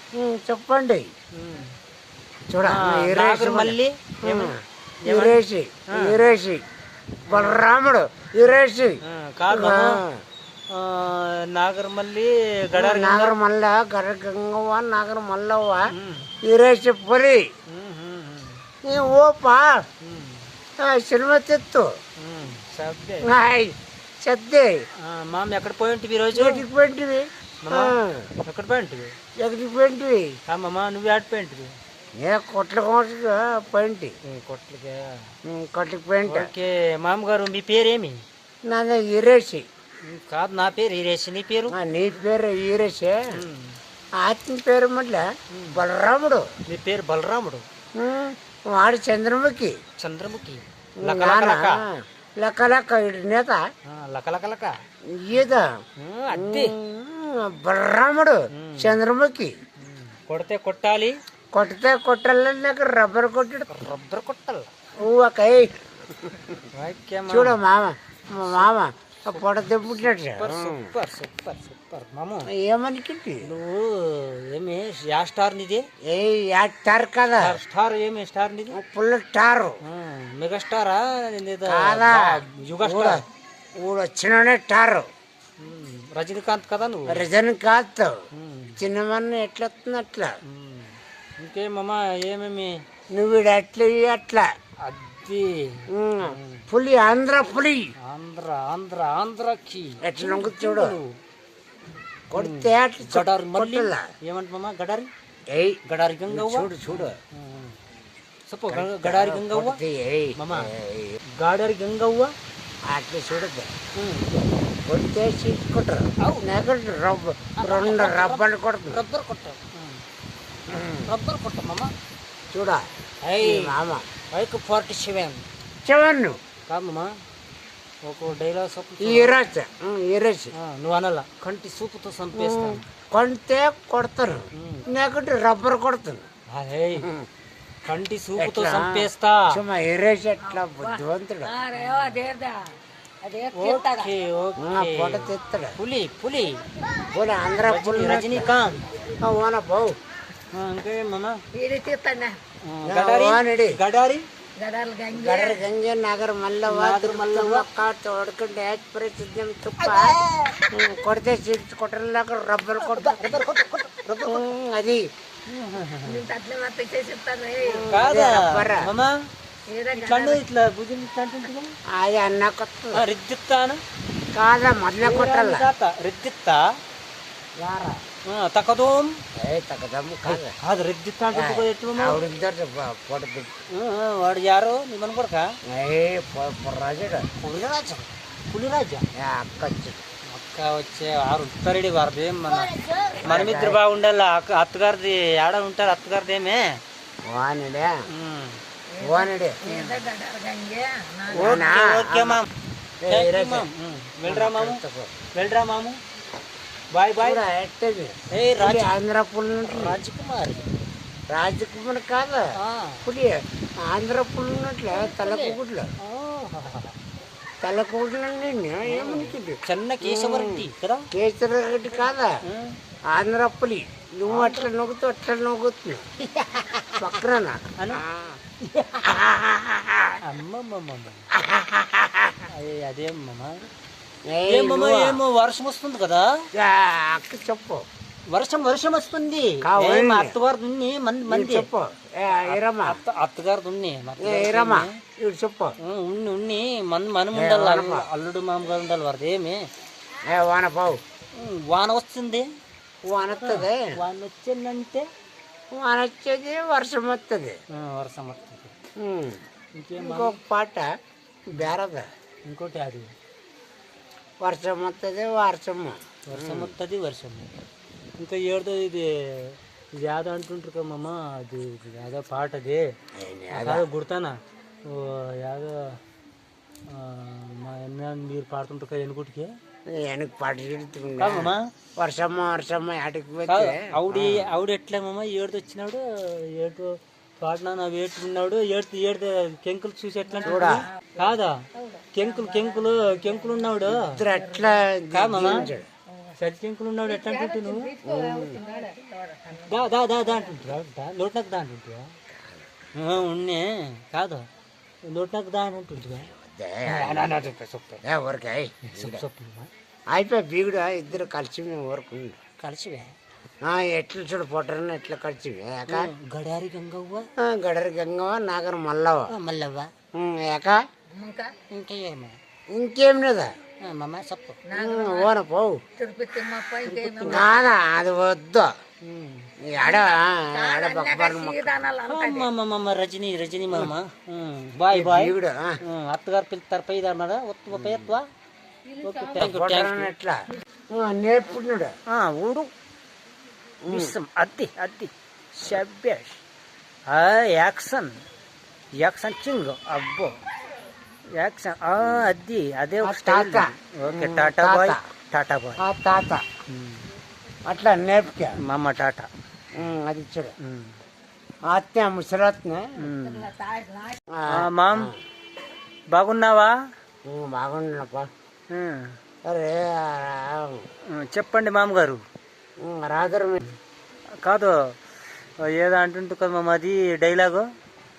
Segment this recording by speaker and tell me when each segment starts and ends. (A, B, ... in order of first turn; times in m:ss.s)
0:00.1-0:01.0 A
0:01.3-0:01.8 B
0:02.5-0:06.6 A
0:02.6-0:06.2 B
0:07.3-0:07.6 B
0:07.3-0:10.2 A
0:09.0-0:10.0 B
0:10.7-0:13.4 B
0:12.7-0:15.8 A
0:15.9-0:16.3 B
0:16.4-0:17.4 A
0:17.7-0:18.6 B
0:18.8-0:19.8 A
0:20.0-0:20.4 B
0:20.8-0:21.9 A
0:22.2-0:23.3 B
0:23.2-0:24.7 A
0:25.0-0:26.6 B
0:26.3-0:28.3 A
0:27.6-0:27.9 B
0:28.5-0:29.1 B
0:29.4-0:30.3 A
0:30.5-0:31.7 B
0:32.2-0:34.2 A
0:34.2-0:35.3 B
0:35.4-0:36.5 A
0:36.3-0:38.2 B
0:38.7-0:39.6 A
0:40.1-0:41.7 B
0:41.7-0:43.2 A
0:43.3-0:43.8 B
0:44.2-0:46.4 A
0:45.5-0:45.8 B
0:46.7-0:47.6 B
0:48.0-0:49.7 A
0:50.0-0:51.8 B
0:51.0-0:53.6 A
0:53.8-0:54.7 B
0:55.1-0:55.7 A
0:56.0-0:56.7 B
0:56.3-0:59.5 A
0:58.5-0:59.0 B
0:59.8-1:01.2 B
1:01.5-1:03.9 A
1:03.7-1:04.7 B
1:05.0-1:06.3 A
1:06.7-1:07.6 B
1:07.3-1:10.9 A
1:08.4-1:08.7 B
1:10.0-1:12.5 B
1:12.6-1:13.5 A
1:13.4-1:15.8 B
1:16.0-1:17.6 A
1:17.4-1:18.8 B
1:18.7-1:19.8 A
1:19.8-1:23.2 B
1:21.7-1:23.2 A
1:23.8-1:25.1 A
1:25.6-1:27.2 B
1:27.1-1:28.1 A
1:28.3-1:28.8 B
1:28.8-1:30.3 A
1:30.5-1:32.8 B
1:33.1-1:34.4 A
1:34.8-1:36.6 B
1:35.9-1:37.8 A
1:38.0-1:41.1 B
1:40.0-1:41.0 A
1:42.3-1:44.1 A
1:42.4-1:45.1 B
1:45.5-1:47.2 A
1:45.8-1:47.8 B
1:48.5-1:49.8 B
1:48.7-1:51.2 A
1:50.4-1:50.7 B
1:51.4-1:52.3 B
1:52.8-1:53.7 A
1:54.0-1:54.3 B
1:54.8-1:59.0 A
1:56.2-1:56.5 B
1:57.6-2:00.0 B
2:00.7-2:01.1 A
2:01.0-2:01.9 B
2:02.5-2:02.8 A
2:03.2-2:03.7 B
2:03.4-2:04.0 A
2:04.3-2:05.4 B
2:05.8-2:06.4 A
2:06.7-2:07.1 B
2:08.0-2:09.4 B
2:09.0-2:10.5 A
2:10.5-2:12.9 B
2:12.3-2:16.3 A
2:14.5-2:14.8 B
2:16.5-2:17.1 B
2:17.0-2:17.3 A
2:17.8-2:19.6 B
2:18.4-2:21.6 A
2:20.5-2:22.7 C
2:21.8-2:22.2 B
2:23.2-2:24.1 C
2:23.5-2:26.6 B
2:24.6-2:25.8 A
2:27.1-2:28.5 A
2:27.6-2:28.8 B
2:29.2-2:29.9 A
2:30.5-2:31.4 B
2:31.5-2:32.4 C
2:32.6-2:34.2 B
2:32.8-2:33.8 A
2:34.6-2:35.7 C
2:35.1-2:40.2 A
2:36.7-2:37.7 B
2:39.8-2:40.6 B
2:40.7-2:43.5 A
2:42.8-2:44.5 B
2:44.2-2:45.0 A
2:45.5-2:46.3 B
2:46.0-2:47.9 C
2:47.6-2:48.9 A
2:47.9-2:49.1 B
2:49.7-2:50.4 C
2:49.9-2:51.7 B
2:51.9-2:53.0 A
2:52.9-2:53.8 B
2:54.3-2:55.7 A
2:55.0-2:56.6 B
2:57.6-2:58.0 A
2:58.2-2:59.2 B
2:59.4-3:00.6 A
3:00.3-3:02.2 B
3:01.3-3:03.6 A
3:03.7-3:05.5 B
3:05.7-3:07.3 A
3:07.4-3:09.1 B
3:09.2-3:10.0 A
3:10.3-3:16.8 B
3:13.1-3:13.8 A
3:17.2-3:17.9 A
3:18.1-3:18.6 B
3:18.9-3:21.6 C
3:19.0-3:20.1 A
3:21.3-3:22.4 A
3:21.3-3:22.5 B
3:23.0-3:23.7 A
3:23.1-3:24.8 B
3:24.2-3:25.2 A
3:25.3-3:26.0 B
3:26.9-3:27.4 B
3:27.2-3:30.0 A
3:28.3-3:28.9 B
3:29.6-3:30.6 B
3:31.3-3:32.4 A
3:32.6-3:33.0 B
3:33.0-3:35.9 A
3:34.9-3:36.9 B
3:37.6-3:42.3 A
3:38.8-3:41.1 B
3:42.4-3:42.8 B
3:43.1-3:46.0 A
3:44.2-3:44.7 B
3:46.9-3:50.2 A
3:47.8-3:48.0 B
3:50.2-3:51.3 B
3:51.4-3:52.4 A
3:52.5-3:53.6 B
3:54.3-3:55.2 A
3:54.4-3:56.3 B
3:56.6-3:57.8 A
3:58.3-4:01.7 B
3:59.6-4:00.4 A
4:01.3-4:03.0 A
4:02.3-4:05.0 B
4:04.2-4:05.7 A
4:05.8-4:09.6 B
4:07.3-4:08.1 A
4:10.3-4:11.0 A
4:11.4-4:12.4 B
4:13.0-4:14.0 A
4:13.4-4:15.0 B
4:15.7-4:17.5 A
4:17.7-4:18.7 B
4:19.0-4:19.4 A
4:19.7-4:20.4 B
4:20.0-4:20.9 A
4:21.5-4:22.1 A
4:22.5-4:23.1 B
4:24.4-4:26.7 A
4:26.2-4:27.5 B
4:28.2-4:32.8 B
4:33.2-4:33.9 A
4:33.5-4:36.0 B
4:36.9-4:39.5 B
4:39.9-4:44.5 A
4:41.2-4:41.6 B
4:43.5-4:54.2 B
4:50.4-4:50.7 C
4:50.4-4:50.8 A
4:51.7-4:54.8 C
4:53.8-4:55.9 A
4:55.1-4:55.7 B
4:55.4-4:56.3 C
4:56.4-4:57.9 B
4:57.0-5:00.5 C
4:58.0-4:58.6 A
4:59.5-5:02.1 B
5:02.3-5:02.7 A
5:03.0-5:04.4 B
5:05.1-5:06.3 B
5:06.2-5:07.4 A
5:06.8-5:08.0 B
5:08.0-5:09.2 A
5:08.8-5:09.7 B
5:10.1-5:12.4 A
5:12.6-5:13.1 B
5:13.6-5:16.1 A
5:15.9-5:17.3 B
5:17.4-5:19.3 A
5:19.3-5:19.9 B
5:20.2-5:20.8 A
5:21.1-5:21.5 C
5:21.7-5:22.4 B
5:22.7-5:23.5 A
5:23.8-5:24.6 B
5:24.6-5:25.3 C
5:24.7-5:25.8 A
5:26.0-5:27.6 C
5:26.9-5:27.5 B
5:27.2-5:28.7 A
5:29.0-5:29.5 B
5:29.6-5:31.9 A
5:29.8-5:32.5 C
5:32.0-5:38.3 B
5:34.9-5:35.8 A
5:37.7-5:38.2 A
5:38.9-5:39.4 C
5:39.0-5:40.1 B
5:39.3-5:40.4 A
5:40.9-5:41.9 A
5:42.1-5:42.7 B
5:43.8-5:44.1 A
5:43.9-5:46.4 B
5:47.1-5:48.2 B
5:49.0-5:50.3 B
5:51.4-5:55.8 B
5:53.0-5:55.0 A
5:55.8-5:56.4 A
5:56.7-5:57.0 B
5:57.7-5:58.6 A
5:58.6-5:59.3 B
5:59.7-6:00.5 A
6:00.6-6:00.9 B
6:01.7-6:03.1 A
6:03.0-6:03.5 B
6:03.3-6:04.2 C
6:04.3-6:05.1 A
6:04.5-6:05.1 B
6:06.1-6:06.7 B
6:07.3-6:08.3 A
6:08.7-6:09.1 B
6:09.4-6:10.8 A
6:11.1-6:12.2 B
6:12.8-6:13.6 A
6:14.4-6:14.8 B
6:15.6-6:17.7 B